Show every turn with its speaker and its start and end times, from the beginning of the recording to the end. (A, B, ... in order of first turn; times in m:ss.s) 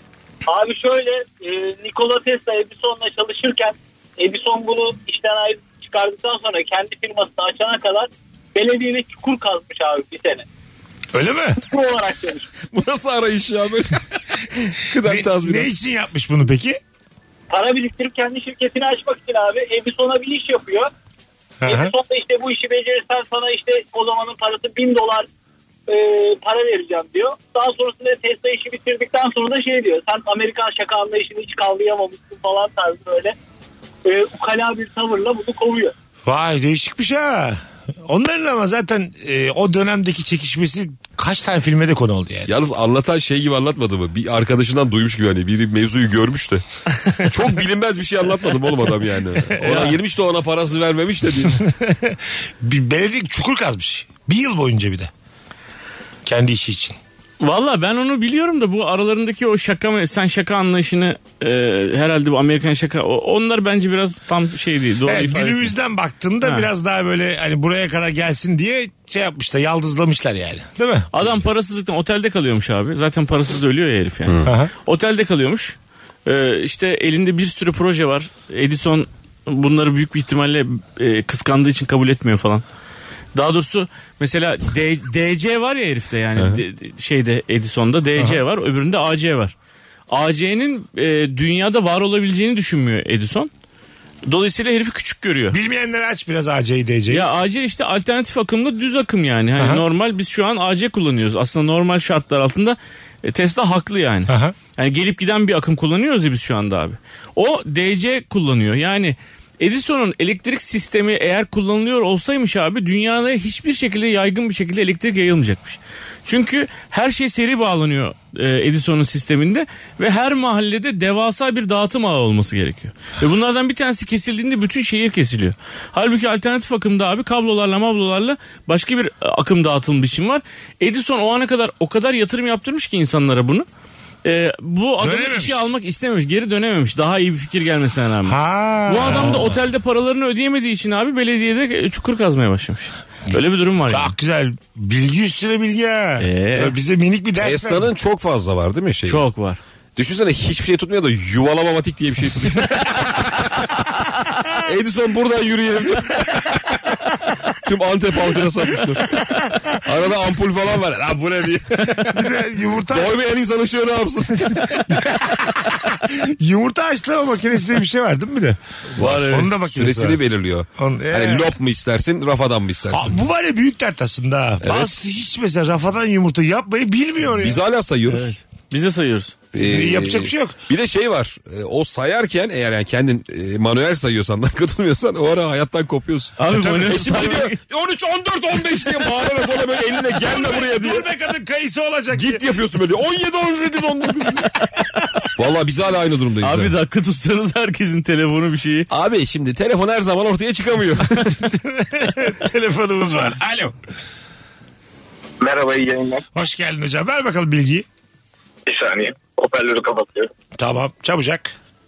0:00.5-0:10.5 A
0:11.1-0:11.6 B
0:11.6-0:12.6 A
0:12.7-0:15.7 C
0:15.0-0:16.8 B
0:17.5-0:20.9 A
0:21.6-0:21.9 B
0:21.7-0:25.3 A
0:25.9-0:33.4 A
0:34.0-0:35.9 A
0:36.3-0:42.5 B
0:42.5-0:51.6 C
0:49.6-0:50.0 D
0:51.5-0:55.1 B
0:56.2-0:57.0 B
0:57.4-1:05.7 D
1:05.1-1:11.2 B
1:06.4-1:06.7 D
1:11.1-1:22.6 D
1:14.3-1:14.5 C
1:14.4-1:14.7 B
1:23.4-1:29.5 D
1:26.4-1:26.6 C
1:30.1-1:33.5 D
1:34.3-1:35.6 D
1:35.5-1:37.3 B
1:37.1-2:13.7 D
1:39.6-1:39.8 B
1:44.3-1:44.6 B
2:14.2-2:24.1 D
2:15.0-2:15.7 B
2:18.2-2:19.6 B
2:23.3-2:27.9 B
2:26.2-2:26.8 D
2:27.4-2:29.2 C
2:29.1-2:29.6 D
2:30.0-2:33.7 C
2:34.6-2:36.8 C
2:37.6-2:42.4 C
2:42.0-2:43.2 B
2:42.9-2:45.1 C
2:44.4-2:50.2 B
2:49.0-2:49.5 D
2:49.0-2:53.2 C
2:50.8-2:51.6 B
2:52.9-2:57.6 B
2:54.6-2:54.9 C
2:57.4-2:58.4 C
2:58.1-2:59.4 D
2:59.5-3:11.1 C
2:59.6-3:00.6 B
3:06.4-3:07.6 D
3:06.6-3:06.9 B
3:10.2-3:12.4 B
3:12.1-3:14.5 C
3:15.4-3:16.7 C
3:16.4-3:18.9 D
3:18.9-3:21.3 C
3:21.2-3:23.8 B
3:25.4-3:26.2 E
3:26.4-3:27.9 B
3:28.7-3:30.3 E
3:30.6-3:31.5 B